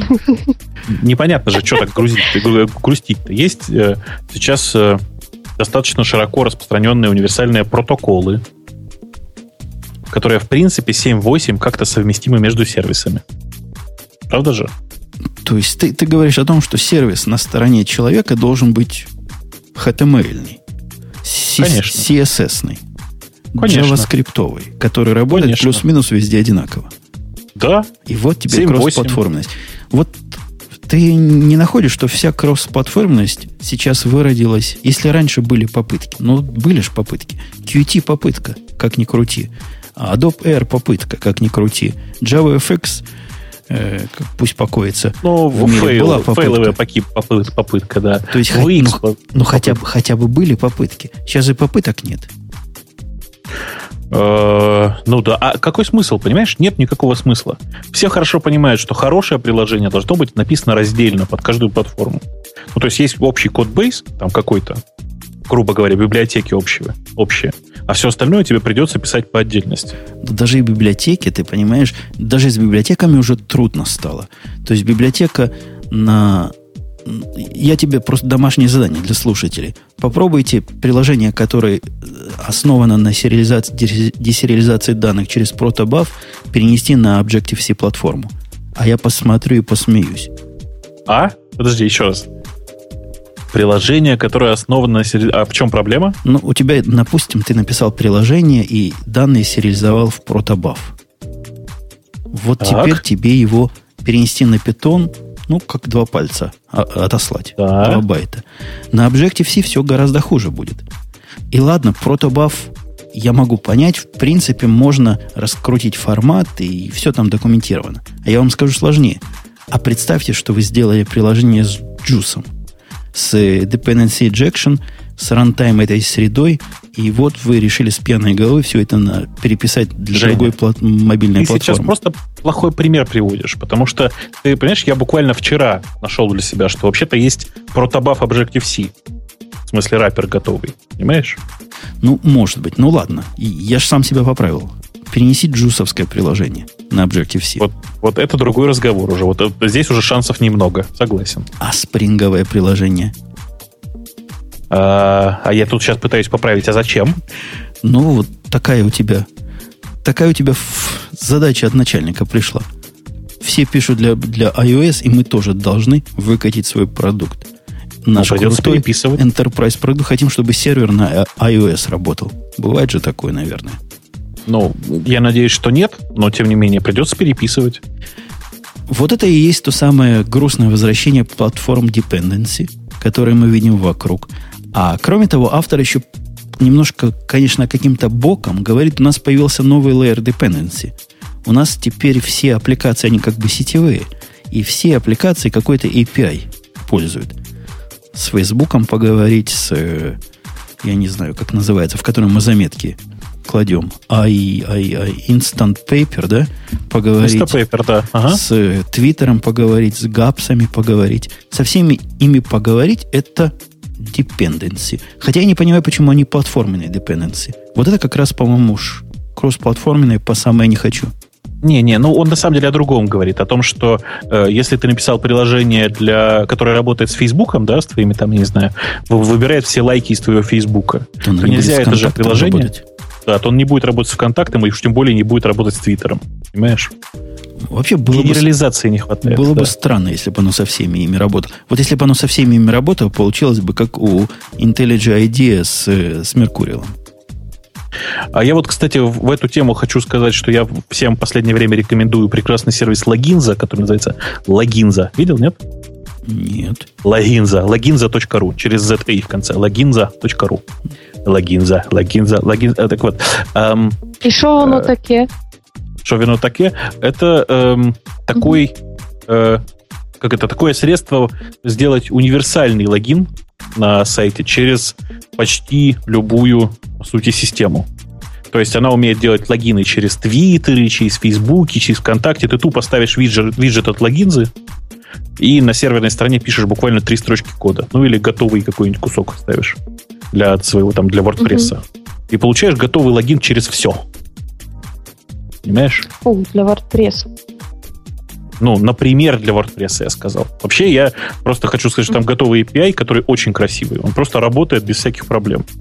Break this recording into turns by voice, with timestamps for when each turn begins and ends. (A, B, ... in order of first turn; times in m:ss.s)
0:00.9-0:05.0 A
0:05.6-0:08.4 A
0:10.1-0:13.2 A
0:14.3-0:14.7 A
0:15.4-0:19.1 B
0:19.7-0:20.6 B
0:21.2-0:22.8 B
0:21.6-0:22.1 A
0:23.5-0:26.9 B
0:23.6-0:24.1 A
0:25.3-0:25.8 A
0:27.6-0:27.9 A
0:28.0-0:43.0 B
0:28.5-0:29.2 A
0:43.7-0:46.8 B
0:45.2-0:49.8 A
0:48.3-0:52.3 B
0:54.1-1:02.2 A
1:02.7-1:04.8 A
1:05.5-1:10.0 A
1:10.2-1:16.5 B
1:17.0-1:30.3 B
1:31.1-1:32.3 A
1:33.5-1:36.2 A
1:36.2-1:40.9 B
1:42.3-1:50.8 B
1:42.6-1:43.0 A
1:47.6-1:48.0 A
1:51.5-2:02.5 B
2:03.1-2:11.9 B
2:10.1-2:10.5 A
2:11.4-2:18.9 A
2:19.7-2:21.4 A
2:22.0-2:27.6 B
2:27.6-2:31.5 A
2:31.6-2:33.1 B
2:34.7-2:37.2 A
2:37.8-2:39.3 B
2:40.0-2:42.7 B
2:43.4-2:47.5 B
2:48.0-2:53.8 B
2:48.2-2:49.2 A
2:54.5-2:57.8 A
2:58.9-3:06.0 B
3:06.6-3:10.9 B
3:11.4-3:17.4 B
3:18.1-3:20.2 B
3:20.8-3:27.6 B
3:27.2-3:28.4 A
3:28.3-3:41.1 B
3:41.6-3:52.7 A
3:51.2-3:52.8 B
3:53.2-3:56.9 A
3:57.7-3:58.5 B
3:58.1-3:59.7 A
3:59.2-4:06.9 B
4:08.3-4:15.6 A
4:16.2-4:16.9 B
4:17.0-4:20.6 A
4:21.2-4:24.0 A
4:24.2-4:25.3 C
4:24.6-4:24.9 A
4:26.0-4:28.7 A
4:29.3-4:29.6 A
4:30.2-4:37.9 A
4:38.5-4:44.5 A
4:45.4-4:49.8 A
4:50.3-4:54.0 A
4:51.4-4:51.7 C
4:55.6-4:56.0 A
4:56.2-4:57.3 C
4:58.6-5:05.6 A